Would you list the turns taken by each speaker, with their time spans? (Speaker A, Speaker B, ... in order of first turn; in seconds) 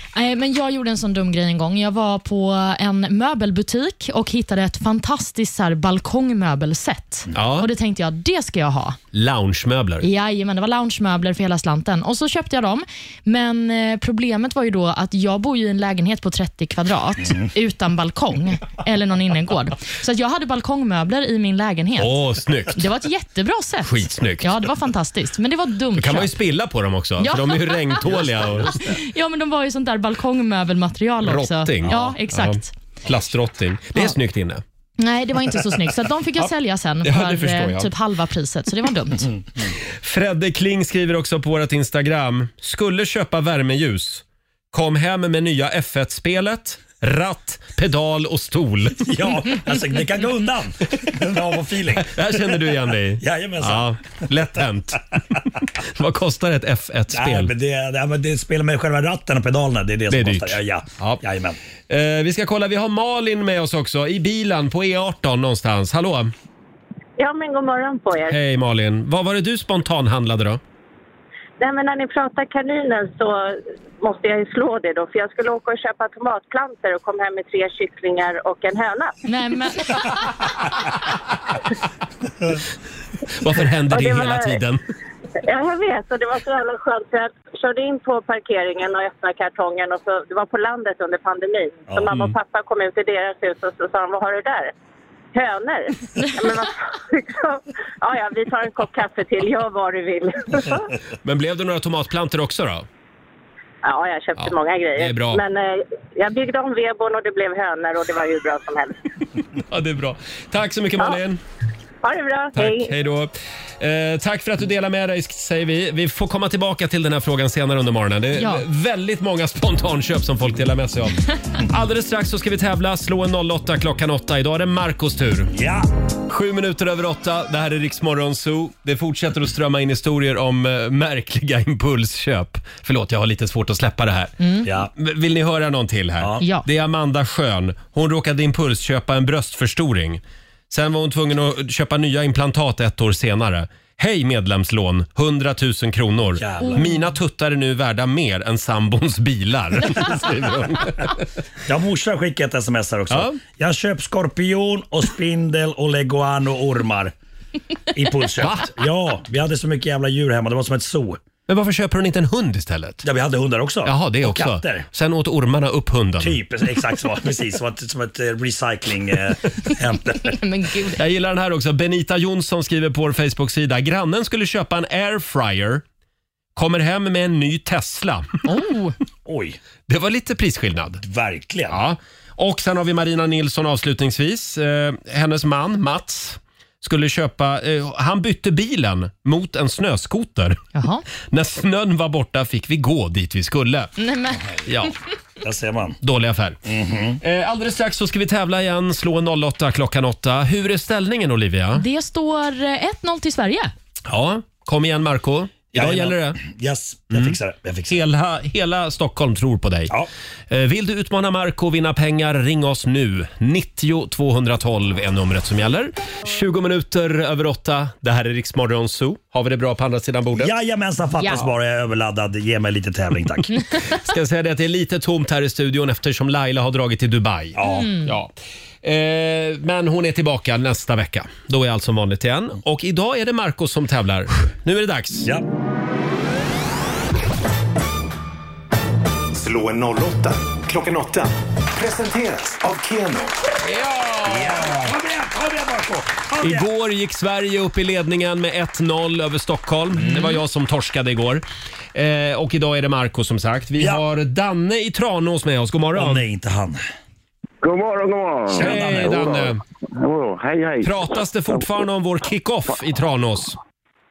Speaker A: 0.1-9.0, 10.0-26.3, 27.2-28.1, 28.8-32.7, 35.0-39.3, 79.3-80.2, 118.4-118.6, 134.4-134.7, 136.4-136.7, 146.6-147.1, 170.4-171.0, 178.4-178.9, 190.8-191.1, 194.0-194.6, 201.7-203.7, 221.2-221.4, 227.6-228.2
Speaker B: 7.3-7.7, 9.1-10.1, 22.0-22.9, 23.8-24.6, 25.9-28.8, 31.2-34.6, 37.0-37.9, 39.9-49.1, 51.9-55.0, 55.8-57.5, 60.1-61.2, 61.9-66.3, 68.3-70.6, 83.4-84.8, 101.2-102.9, 104.4-105.4, 109.7-111.4, 112.6-125.5, 126.3-151.2, 153.1-153.4, 158.4-158.7, 161.5-163.0, 163.8-166.4, 170.9-175.8, 176.6-178.3, 179.9-181.0, 181.7-190.6, 191.3-193.9, 194.6-194.9, 196.0-196.6, 197.2-201.8, 204.1-206.4, 207.1-210.0, 210.5-220.5, 223.9-228.3, 228.8-235.3, 243.6-244.9, 246.4-256.2, 258.5-259.6, 260.8-263.6
Speaker C: 28.1-29.0, 49.0-52.6, 53.2-54.0, 57.1-61.6, 91.9-92.2, 125.5-125.9, 134.6-134.9, 136.2-136.4, 146.4-146.9, 151.7-157.1, 157.9-161.2, 163.0-164.9, 166.2-170.4, 179.3-179.6, 181.0-181.8, 195.4-196.0, 196.7-197.2, 205.7-208.0, 220.4-223.6, 227.6-227.9, 244.2-246.7, 249.9-250.4, 255.9-256.8, 258.5-259.2
Speaker D: 67.2-68.4, 71.6-79.2, 83.9-84.6, 85.4-94.7, 95.3-100.9, 103.8-109.0, 112.0-112.9
Speaker E: 239.3-243.3
Speaker F: 257.6-261.0